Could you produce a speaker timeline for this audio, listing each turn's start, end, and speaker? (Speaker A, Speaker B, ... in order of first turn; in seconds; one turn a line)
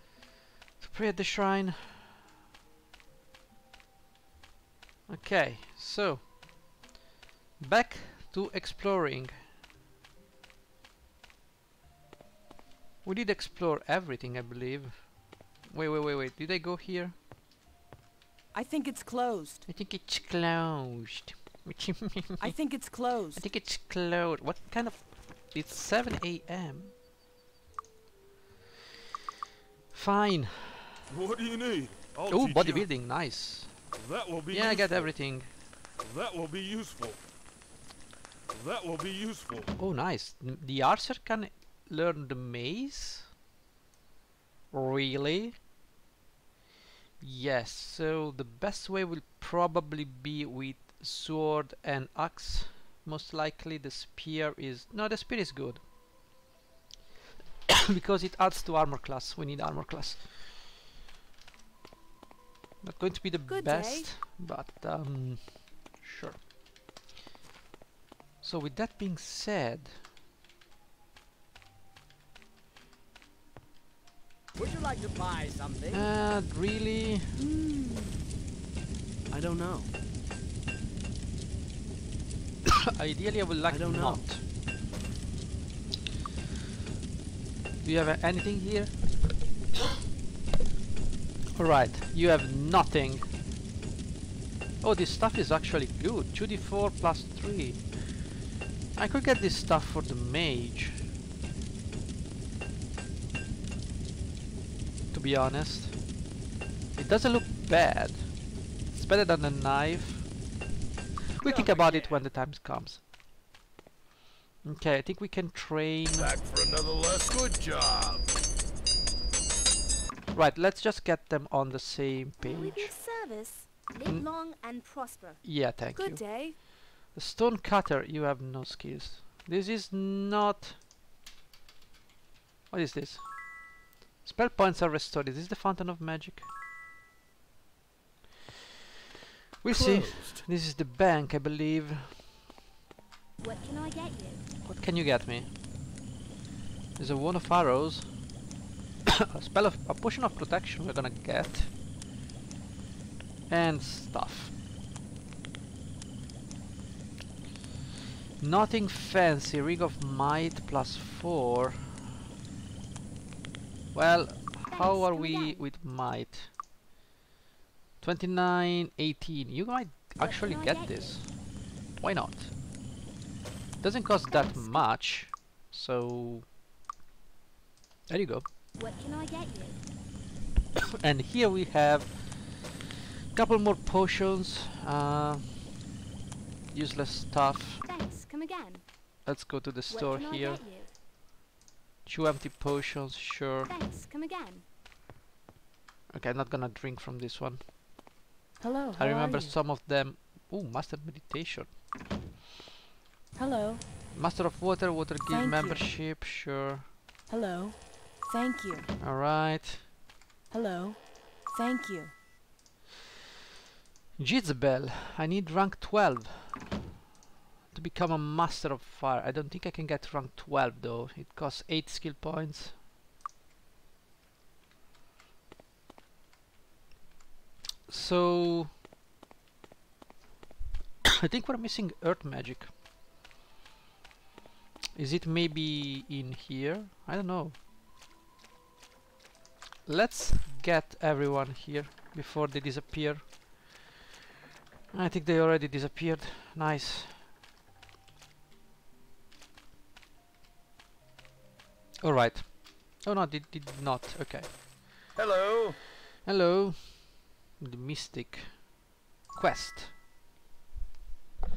Speaker A: 0.8-2.1
Speaker A: 5.1-6.3
Speaker A: 7.6-9.3
Speaker A: 13.0-15.1
Speaker A: 15.7-17.1
Speaker B: 18.5-19.6
Speaker A: 19.7-26.9
Speaker B: 22.4-23.4
Speaker A: 29.9-31.0
Speaker C: 31.1-32.9
Speaker A: 32.3-33.9
Speaker C: 33.9-35.1
Speaker A: 34.5-35.5
Speaker C: 36.0-37.2
Speaker C: 38.5-39.7
Speaker A: 39.8-43.3
Speaker A: 44.7-45.5
Speaker A: 47.2-55.8
Speaker A: 57.7-60.6
Speaker A: 62.8-66.4
Speaker B: 63.5-64.1
Speaker A: 68.4-70.0
Speaker D: 74.5-76.1
Speaker A: 75.9-77.3
Speaker B: 77.3-78.2
Speaker D: 79.3-79.9
Speaker A: 82.7-84.4
Speaker D: 83.7-84.3
Speaker A: 87.8-88.9
Speaker A: 91.5-93.3
Speaker A: 94.8-98.1
Speaker A: 98.9-101.1
Speaker A: 105.1-106.0
Speaker A: 107.0-108.3
Speaker A: 108.9-110.3
Speaker A: 111.3-113.0
Speaker D: 111.4-112.2
Speaker A: 114.6-116.3
Speaker C: 116.1-118.3
Speaker A: 120.3-122.9
Speaker B: 122.4-123.7
Speaker E: 122.4-122.9
Speaker E: 123.6-125.4
Speaker A: 125.4-130.8
Speaker B: 125.8-126.6
Speaker A: 132.7-133.3
Speaker A: 134.2-136.5
Speaker A: 139.6-142.2
Speaker C: 139.7-140.4
Speaker E: 143.4-144.5
Speaker A: 144.6-145.5
Speaker A: 147.0-148.1
Speaker A: 149.1-151.7
Speaker A: 153.5-154.5
Speaker A: 158.4-161.9
Speaker A: 163.9-166.5
Speaker E: 164.7-165.6
Speaker A: 168.0-171.4
Speaker E: 170.2-171.2
Speaker A: 172.0-172.5
Speaker A: 173.8-176.5
Speaker E: 174.2-174.9
Speaker A: 178.1-178.4
Speaker E: 178.7-179.8
Speaker A: 181.0-182.8
Speaker A: 183.3-185.7
Speaker A: 186.7-187.8
Speaker E: 187.8-189.1
Speaker A: 189.2-190.7
Speaker E: 189.9-190.9
Speaker A: 192.0-193.7
Speaker E: 193.7-194.6
Speaker A: 196.1-197.6
Speaker B: 198.6-199.5
Speaker A: 198.9-201.8
Speaker B: 203.3-203.8
Speaker A: 204.1-206.9
Speaker B: 205.3-205.8
Speaker B: 207.3-208.9
Speaker A: 209.0-209.8
Speaker B: 210.5-212.1
Speaker A: 214.2-216.8
Speaker A: 217.7-222.8
Speaker A: 227.9-228.7
Speaker A: 231.0-232.7
Speaker A: 234.9-237.6
Speaker A: 239.8-243.7
Speaker A: 244.9-247.2
Speaker A: 252.0-254.5
Speaker C: 255.1-255.8
Speaker A: 256.2-257.0
Speaker A: 257.6-258.6
Speaker A: 259.3-259.9